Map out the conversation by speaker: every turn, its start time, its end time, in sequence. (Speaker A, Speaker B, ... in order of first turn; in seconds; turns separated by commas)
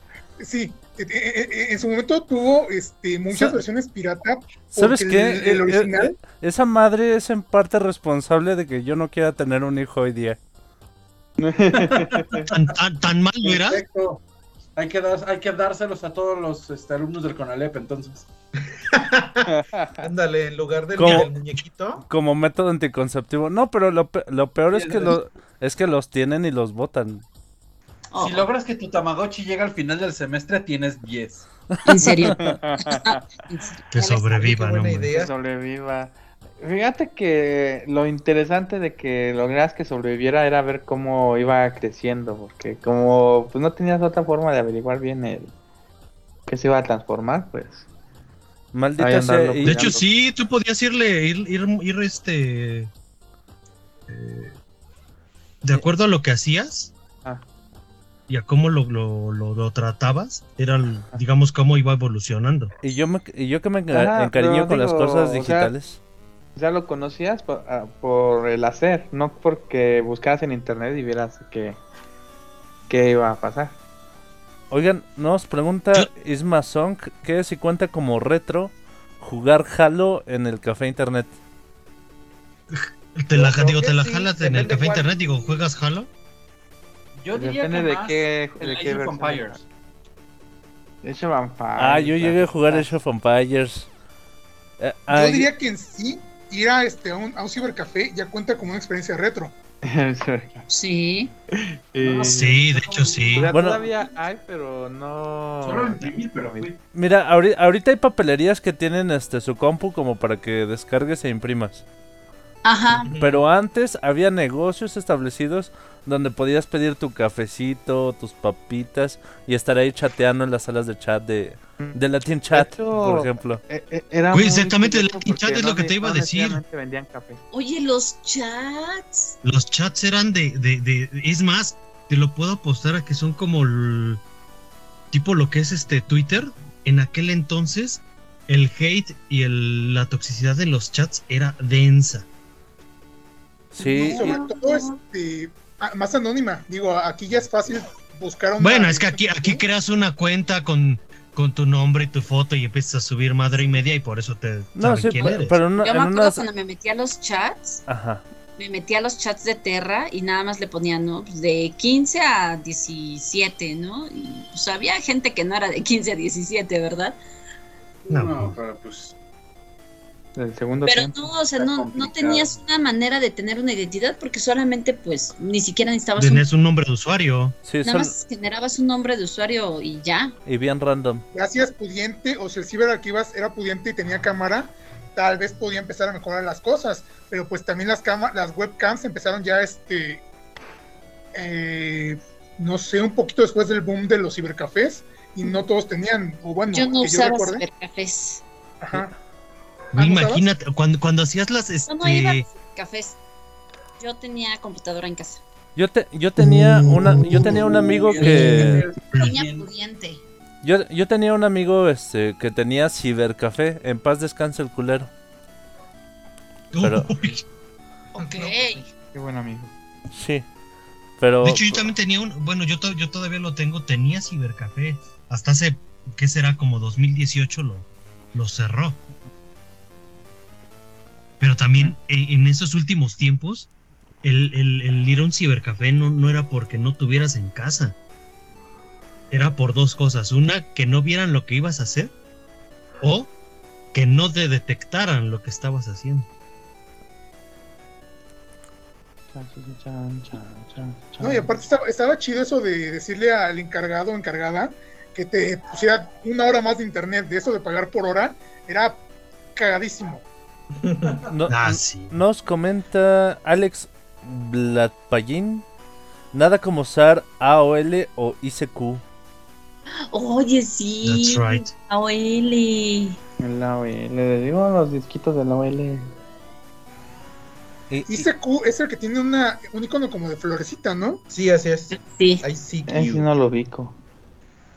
Speaker A: 0.4-6.1, Speaker B: 3.3-3.6, Speaker C: 4.7-10.4, Speaker D: 11.4-12.5, Speaker E: 11.7-12.4, Speaker B: 12.5-13.8, Speaker E: 13.4-14.2, Speaker E: 14.8-18.3, Speaker F: 18.7-22.0, Speaker D: 19.5-19.9, Speaker C: 20.9-21.3, Speaker C: 22.1-27.2, Speaker E: 24.7-25.1, Speaker G: 28.1-28.5, Speaker E: 28.2-31.5, Speaker G: 31.8-34.4, Speaker C: 31.9-32.3, Speaker D: 32.3-33.2, Speaker B: 33.9-35.1, Speaker F: 34.3-35.3, Speaker D: 35.1-45.5, Speaker D: 46.5-47.9, Speaker C: 48.7-50.0, Speaker D: 49.0-50.0, Speaker B: 49.6-52.9, Speaker B: 54.1-54.6, Speaker B: 55.6-56.9, Speaker B: 58.3-62.7, Speaker C: 62.8-66.0, Speaker D: 63.9-65.7, Speaker D: 66.5-71.8, Speaker D: 72.9-73.8, Speaker C: 74.7-81.3, Speaker B: 82.7-86.1, Speaker E: 83.3-85.6, Speaker E: 87.2-89.6, Speaker D: 87.3-89.6, Speaker D: 91.0-92.9, Speaker C: 91.8-93.9, Speaker C: 94.8-95.5, Speaker A: 95.1-99.5, Speaker D: 99.8-100.7, Speaker G: 100.7-101.3, Speaker D: 101.5-102.6, Speaker E: 102.0-104.0, Speaker B: 102.3-103.5, Speaker D: 103.3-106.7, Speaker C: 103.5-103.8, Speaker E: 105.6-106.8, Speaker C: 106.9-111.8, Speaker G: 112.6-113.1, Speaker F: 112.9-113.4, Speaker C: 113.2-123.6, Speaker D: 122.5-127.4, Speaker B: 124.3-126.6, Speaker G: 127.5-129.3, Speaker B: 129.4-134.2, Speaker B: 135.1-142.3, Speaker C: 143.7-144.4, Speaker A: 143.8-149.6, Speaker G: 143.9-145.0, Speaker B: 148.6-155.6, Speaker C: 154.8-156.4, Speaker G: 155.3-157.8, Speaker C: 157.9-158.2, Speaker G: 158.6-167.2, Speaker E: 168.1-169.1, Speaker B: 168.1-168.6, Speaker D: 170.4-171.2, Speaker G: 170.8-176.4, Speaker E: 171.5-172.6, Speaker B: 176.2-177.6, Speaker C: 177.7-178.1, Speaker G: 177.8-180.3, Speaker C: 180.4-181.2, Speaker A: 181.3-190.2, Speaker A: 191.3-197.6, Speaker G: 196.7-198.4, Speaker A: 198.8-199.1, Speaker B: 199.9-202.5, Speaker A: 199.9-200.4, Speaker G: 201.9-203.2, Speaker G: 204.0-205.4, Speaker C: 205.8-208.9, Speaker B: 206.4-209.3, Speaker E: 207.1-209.7, Speaker G: 209.2-210.2, Speaker C: 210.6-215.1, Speaker B: 216.7-217.4, Speaker C: 216.8-217.1, Speaker G: 218.1-218.9, Speaker D: 219.1-219.7, Speaker C: 220.1-220.4, Speaker C: 221.2-221.9, Speaker B: 221.4-229.0, Speaker B: 231.4-233.7, Speaker B: 234.2-237.9, Speaker B: 239.3-242.1, Speaker B: 243.0-243.3, Speaker B: 243.9-246.3, Speaker D: 249.3-251.6, Speaker A: 251.2-259.0, Speaker A: 259.6-260.2, Speaker F: 260.8-261.2, Speaker C: 261.3-265.6, Speaker B: 261.5-262.2, Speaker C: 266.3-269.0, Speaker G: 270.1-273.2, Speaker B: 271.0-271.7, Speaker D: 273.4-276.1, Speaker C: 277.9-278.3, Speaker A: 278.1-281.2, Speaker F: 281.3-283.3, Speaker G: 281.9-282.4, Speaker D: 282.9-283.9